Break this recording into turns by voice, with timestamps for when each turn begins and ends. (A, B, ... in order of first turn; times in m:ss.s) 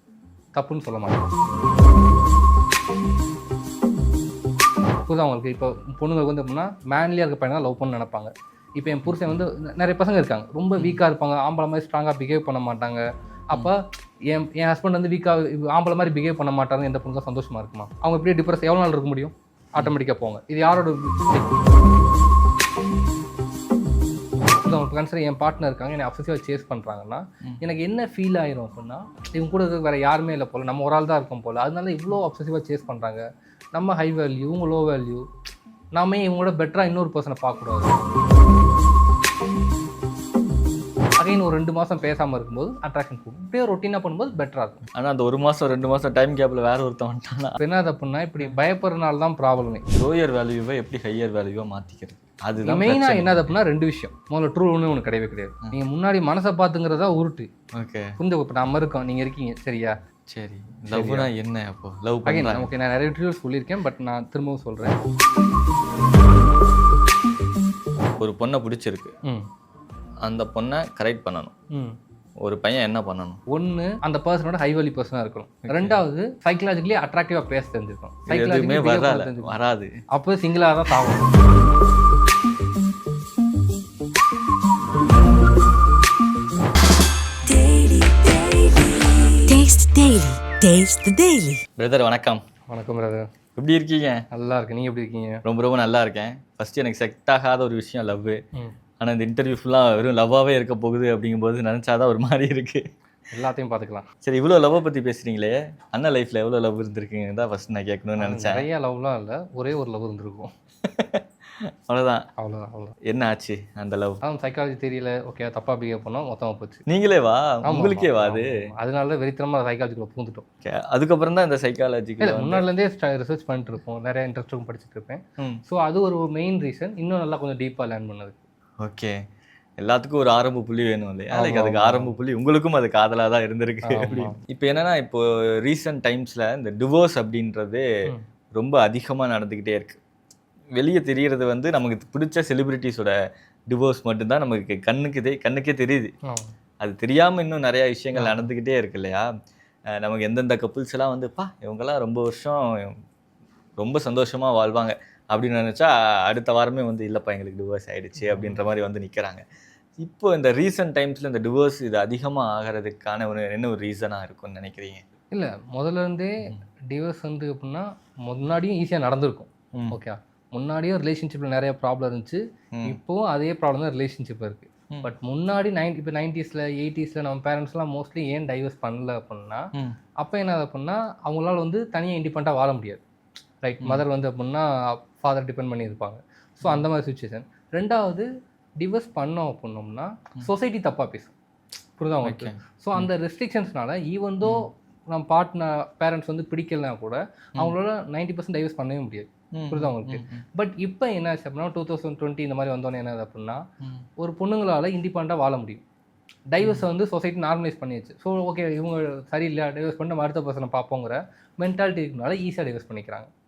0:00.6-0:01.3 A
0:05.1-0:21.6 A
0:09.1-0:09.4 B
0:24.6-0:33.2 A
0:33.8-0:35.3 A
0:36.0-0:38.0 A
0:41.2-0:44.8 A
0:45.0-0:47.6 B
0:47.6-0:49.9 A
0:49.9-0:53.5 B
0:52.6-0:57.5 A
0:57.8-0:58.1 B
0:58.2-0:59.9 A
1:00.3-1:02.7 B
1:00.9-1:01.3 A
1:02.3-1:05.0 A
1:08.2-1:09.2 B
1:10.2-1:11.5 B
1:12.4-1:13.4 B
1:13.5-1:19.6 A
1:15.7-1:16.0 B
1:18.3-1:19.9 B
1:20.1-1:21.4 A
1:27.8-1:28.2 C
1:28.3-1:28.8 A
1:29.5-1:31.6 C
1:31.8-1:32.4 B
1:32.7-1:33.3 A
1:33.6-1:34.2 B
1:34.3-1:35.4 A
1:35.4-1:38.4 B
1:39.0-1:42.8 B
1:43.3-1:44.1 A
1:44.2-1:48.6 B
1:48.2-1:50.5 A
1:50.9-1:51.2 B
1:51.9-1:52.2 B
1:52.4-1:53.0 A
1:53.1-1:54.2 B
1:54.2-1:56.8 A
1:56.9-1:58.5 B
1:57.6-2:00.4 A
2:00.6-2:02.6 B
2:02.2-2:08.4 A
2:08.8-2:09.1 B
2:09.8-2:17.8 B
2:11.3-2:12.1 A
2:13.8-2:14.4 A
2:18.6-2:20.0 B
2:20.8-2:23.1 B
2:23.7-2:26.1 B
2:26.2-2:26.5 A
2:26.8-2:29.3 B
2:28.1-2:28.5 A
2:30.0-2:33.0 B
2:33.8-2:39.4 B
2:38.2-2:38.6 A
2:40.0-2:45.0 B
2:45.3-2:59.7 A
2:49.7-2:50.0 B
3:00.2-3:03.0 A
3:03.6-3:08.3 A
3:08.8-3:11.3 A
3:12.0-3:23.6 A
3:12.2-3:13.1 B
3:19.5-3:20.4 B
3:24.2-3:25.8 A
3:26.5-3:33.3 A